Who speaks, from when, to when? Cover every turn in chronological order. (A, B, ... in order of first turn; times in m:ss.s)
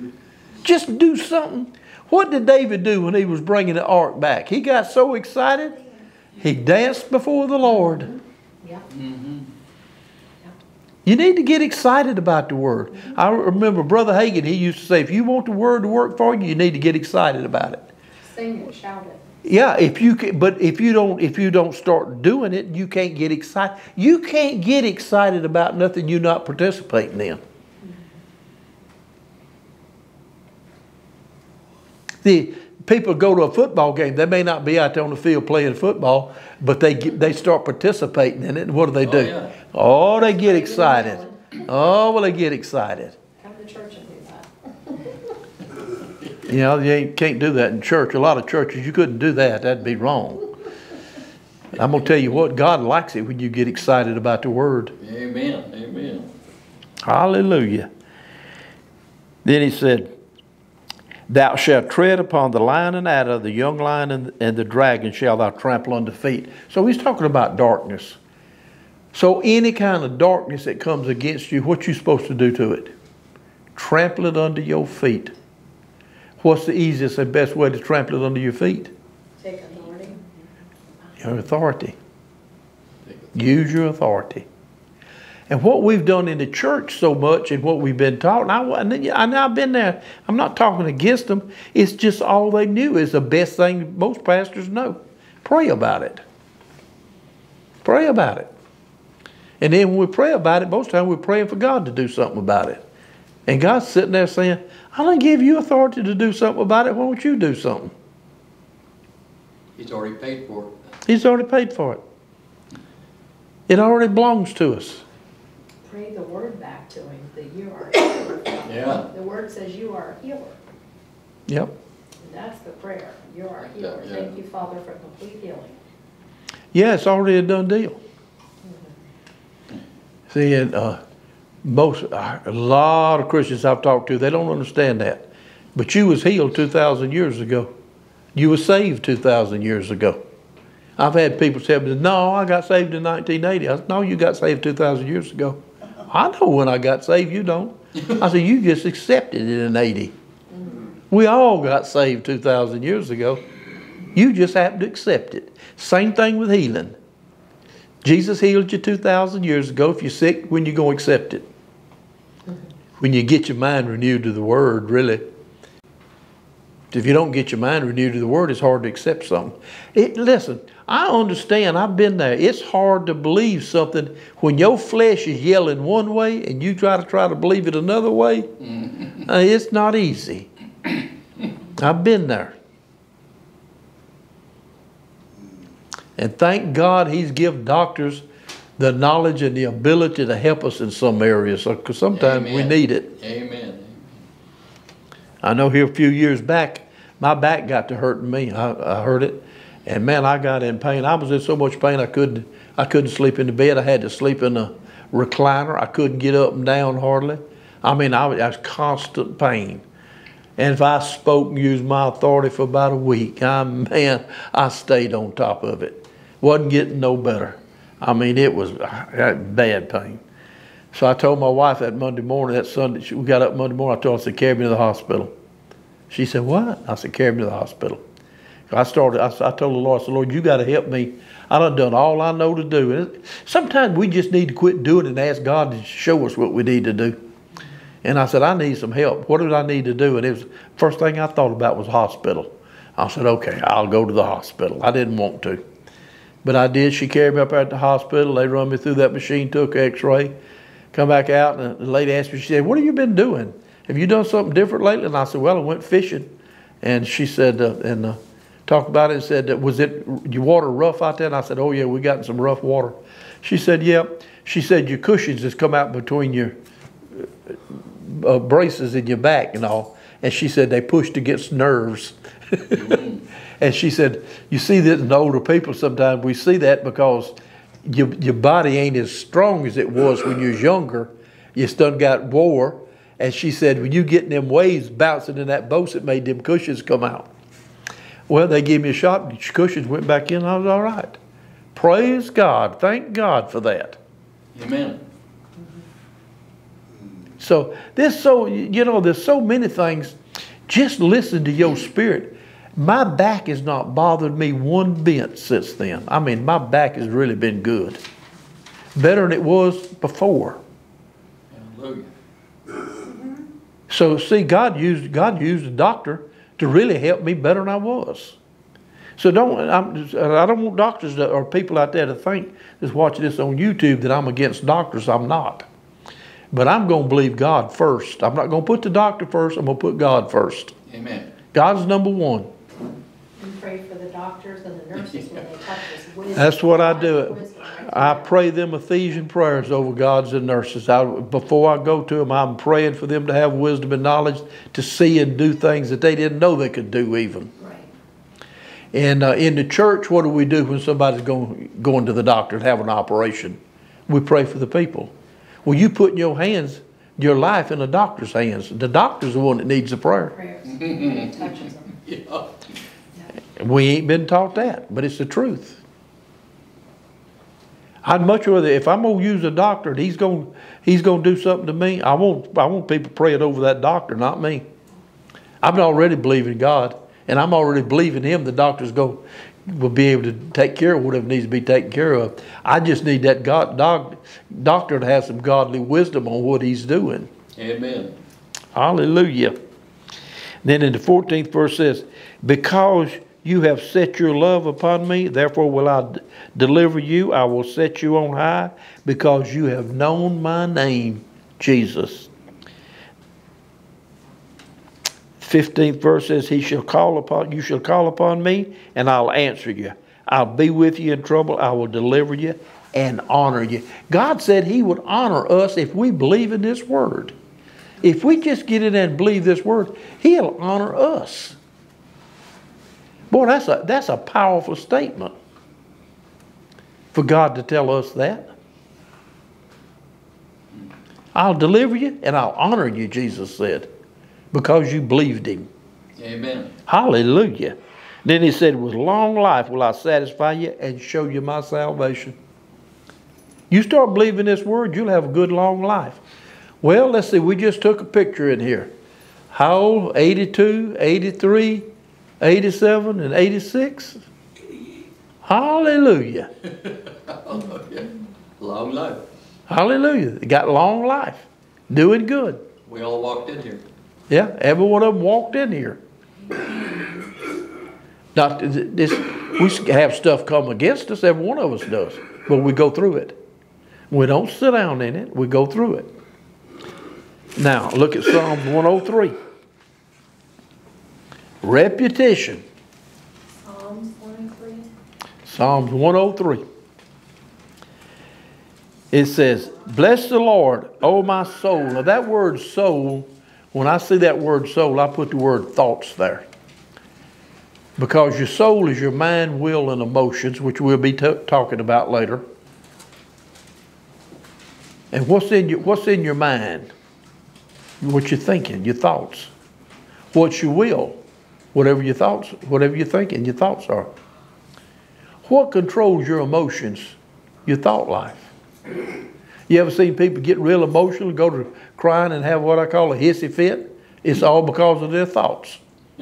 0:00.6-0:05.8 A
0:06.4-0:08.1 A
0:08.9-0:09.5 B
0:11.0-0:17.9 A
0:18.2-0:19.2 C
0:19.4-0:27.4 A
0:32.2-0:43.2 A
0:39.0-0:39.5 B
0:40.3-0:41.4 C
0:43.4-0:45.0 C
0:46.5-0:50.5 A
0:51.8-0:55.0 A
0:55.0-0:56.3 B
0:57.0-0:57.9 A
0:59.4-1:00.1 A
1:01.3-1:08.2 A
1:09.1-1:12.9 A
1:13.8-1:15.3 A
1:16.4-1:18.9 A
1:19.4-1:20.2 C
1:21.2-1:22.0 A
1:23.0-1:23.3 B
1:23.3-1:24.5 A
1:25.5-1:36.2 A
1:37.8-1:38.5 A
1:39.6-1:42.8 A
1:43.5-1:47.9 A
1:49.8-1:50.7 B
1:51.1-1:52.0 A
1:53.7-1:55.0 A
1:55.8-2:00.6 C
1:58.6-1:59.1 B
2:01.5-2:01.7 A
2:02.2-2:05.8 C
2:03.8-2:04.3 B
2:06.7-2:08.0 A
2:08.6-2:08.9 C
2:10.3-2:11.0 A
2:11.6-2:17.7 A
2:18.4-2:20.2 A
2:21.0-2:30.2 A
2:31.1-2:33.4 A
2:34.1-2:37.0 A
2:38.0-2:41.5 A
2:43.0-2:45.3 A
2:46.9-2:58.5 A
2:59.2-3:00.5 A
3:01.8-3:02.6 A
3:06.2-3:08.2 A
3:08.8-3:13.1 A
3:12.1-3:14.2 B
3:15.4-3:29.8 A
3:30.6-3:40.2 A
3:40.9-3:45.3 A
3:46.1-3:48.0 A
3:48.7-3:57.2 A
3:58.0-4:05.6 A
4:06.4-4:10.4 A
4:10.9-4:26.6 A
4:27.2-4:33.0 A
4:32.8-4:33.2 B
4:33.6-4:47.3 A
4:48.3-4:51.2 A
4:51.8-4:54.0 A
4:54.5-4:55.0 B
4:57.4-5:00.2 A
5:00.7-5:08.0 A
5:09.0-5:10.6 A
5:11.5-5:12.1 B
5:13.9-5:18.4 A
5:19.2-5:25.7 A
5:26.5-5:30.7 A
5:30.9-5:31.3 B
5:31.5-5:32.5 A
5:33.4-5:38.4 C
5:36.3-5:47.5 A
5:47.6-5:47.9 C
5:48.9-5:55.1 A
5:55.6-6:00.3 A
6:00.3-6:02.0 C
6:00.6-6:02.6 B
6:03.6-6:05.8 A
6:08.0-6:14.7 A
6:15.6-6:27.3 A
6:27.6-6:28.2 B
6:28.8-6:29.6 A
6:30.6-6:42.3 A
6:45.4-6:57.4 A
6:58.0-7:01.6 A
7:03.3-7:05.4 A
7:07.1-7:08.5 A
7:11.4-7:13.9 A
7:14.5-7:15.7 A
7:16.2-7:16.8 B
7:16.9-7:22.4 A
7:23.7-7:26.2 A
7:26.8-7:28.9 A
7:29.5-7:31.9 A
7:32.4-7:34.2 A
7:35.4-7:36.5 A
7:36.6-7:39.2 B
7:39.7-7:42.6 A
7:42.9-7:43.8 B
7:44.3-7:46.0 A
7:48.4-7:53.4 A
7:54.1-7:56.1 A
7:57.6-7:59.4 A
8:01.6-8:02.6 A
8:03.6-8:04.9 C
8:05.4-8:06.6 A
8:09.1-8:16.5 A
8:18.0-8:22.4 A
8:25.1-8:26.9 A
8:28.0-8:29.5 A
8:30.3-8:31.2 A
8:31.7-8:34.1 A
8:35.4-8:38.5 A
8:39.7-8:45.8 A